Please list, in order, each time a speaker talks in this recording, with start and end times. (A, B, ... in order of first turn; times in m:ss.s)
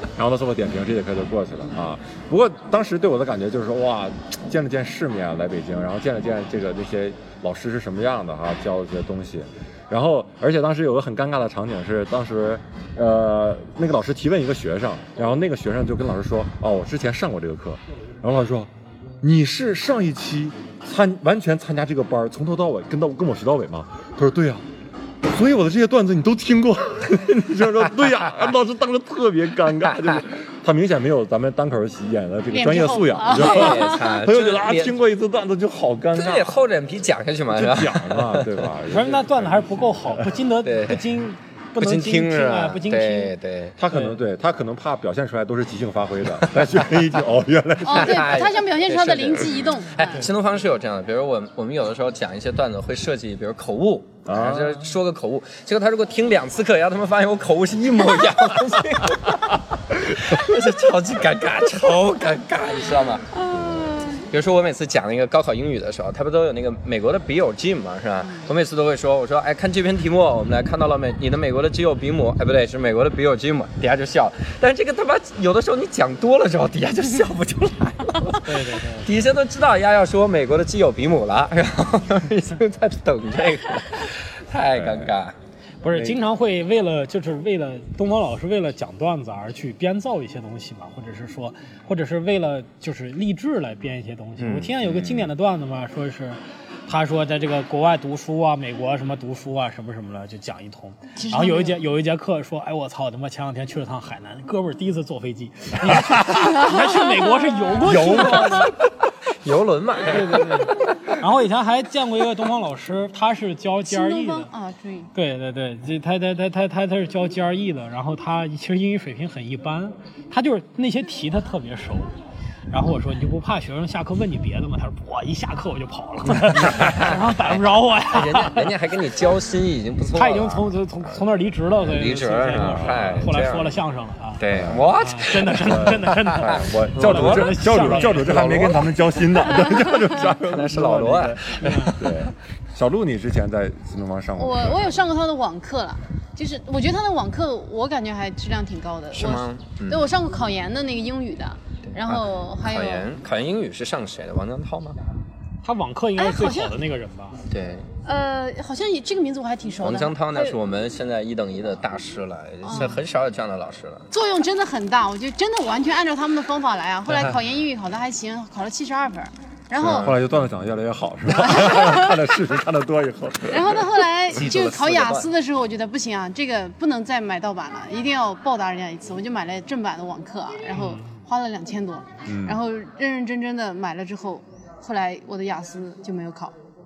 0:00.1-0:24.6 A
0:25.2-0:36.6 A
0:32.5-0:34.1 B
0:33.3-0:35.0 C
0:36.1-0:38.7 C
0:37.5-0:40.3 A
0:38.9-0:43.3 D
0:40.6-0:41.1 C
0:41.8-0:43.8 C
0:43.8-0:48.3 A
0:43.9-0:44.2 D
0:46.3-0:47.0 C
0:47.8-0:50.3 B
0:47.8-1:03.5 C
0:50.0-0:50.3 D
0:54.2-0:54.8 A
1:03.5-1:04.1 A
1:03.6-1:04.2 B
1:04.1-1:25.3 C
1:18.4-1:19.1 D
1:24.7-1:25.1 A
1:25.8-1:48.7 D
1:25.9-1:26.2 A
1:34.4-1:34.7 C
1:34.7-1:35.3 A
1:41.2-1:41.8 B
1:46.4-1:47.2 B
1:47.8-1:48.7 C
1:48.1-1:48.6 B
1:49.4-1:50.7 C
1:50.1-1:54.5 D
1:53.8-1:55.1 B
1:55.1-2:02.1 D
2:02.7-2:08.8 D
2:06.6-2:11.2 C
2:10.1-2:14.4 D
2:11.8-2:13.8 C
2:14.4-2:22.3 C
2:14.5-2:14.9 A
2:15.0-2:18.5 D
2:15.6-2:21.4 A
2:19.6-2:20.0 B
2:21.5-2:22.0 D
2:21.9-2:25.0 A
2:24.4-2:33.1 B
2:29.1-2:30.1 C
2:31.9-2:35.0 C
2:35.6-2:37.4 D
2:36.2-2:36.7 B
2:37.5-2:37.9 C
2:38.0-2:40.6 B
2:39.8-2:44.1 C
2:42.6-2:43.0 B
2:44.1-2:50.1 B
2:49.8-2:50.3 C
2:49.8-2:53.9 A
2:51.3-2:52.2 B
2:53.5-3:06.5 B
2:54.3-2:55.3 C
3:00.7-3:01.2 D
3:02.2-3:02.6 A